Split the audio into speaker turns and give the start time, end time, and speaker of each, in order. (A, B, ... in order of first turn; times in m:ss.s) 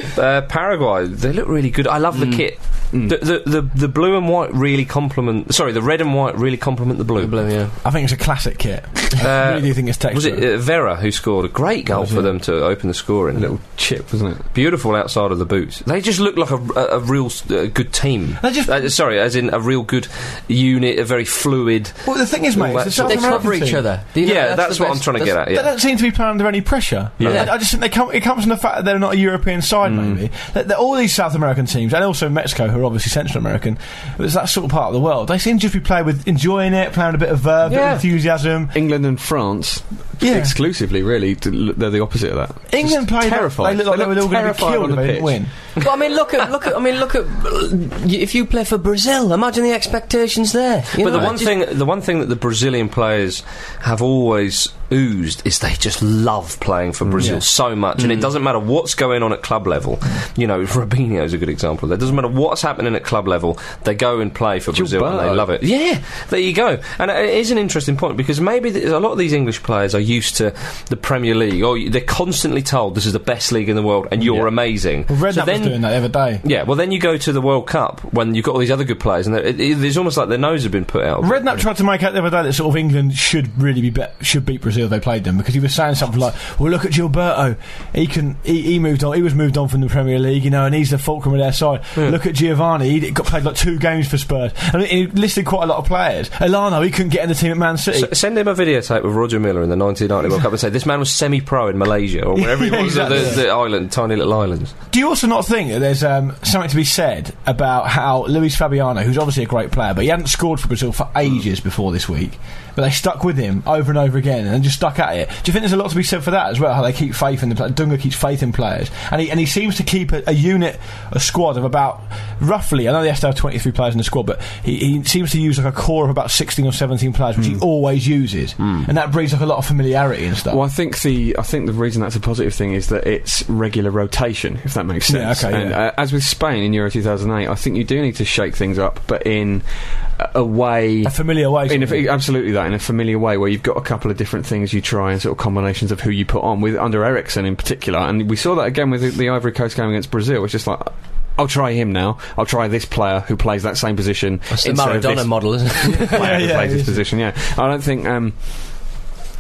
0:00.1-0:07.5 A
0:02.1-0:02.4 B
0:07.2-0:07.7 B
0:07.8-0:10.4 C
0:09.2-0:13.8 A
0:11.9-0:12.3 C
0:13.3-0:14.4 D
0:14.5-0:23.5 A
0:18.4-0:18.9 C
0:22.0-0:23.9 C
0:23.0-0:25.4 B
0:24.2-0:25.7 A
0:25.5-0:38.7 C
0:27.2-0:27.5 D
0:27.2-0:27.5 A
0:29.8-0:30.2 D
0:37.6-0:38.0 A
0:38.7-0:45.4 D
0:40.2-0:40.5 C
0:42.7-0:45.5 C
0:45.8-0:51.6 B
0:51.0-1:21.6 A
0:57.0-0:57.4 D
0:57.2-0:57.4 C
0:58.0-0:58.2 D
1:04.7-1:05.4 D
1:14.7-1:16.4 C
1:21.2-1:38.1 C
1:37.9-1:44.7 A
1:42.4-1:43.4 C
1:44.9-2:10.6 C
2:08.6-2:08.9 A
2:10.5-2:38.9 D
2:15.1-2:15.8 C
2:21.0-2:22.0 C
2:34.6-2:36.4 B
2:36.1-2:37.1 C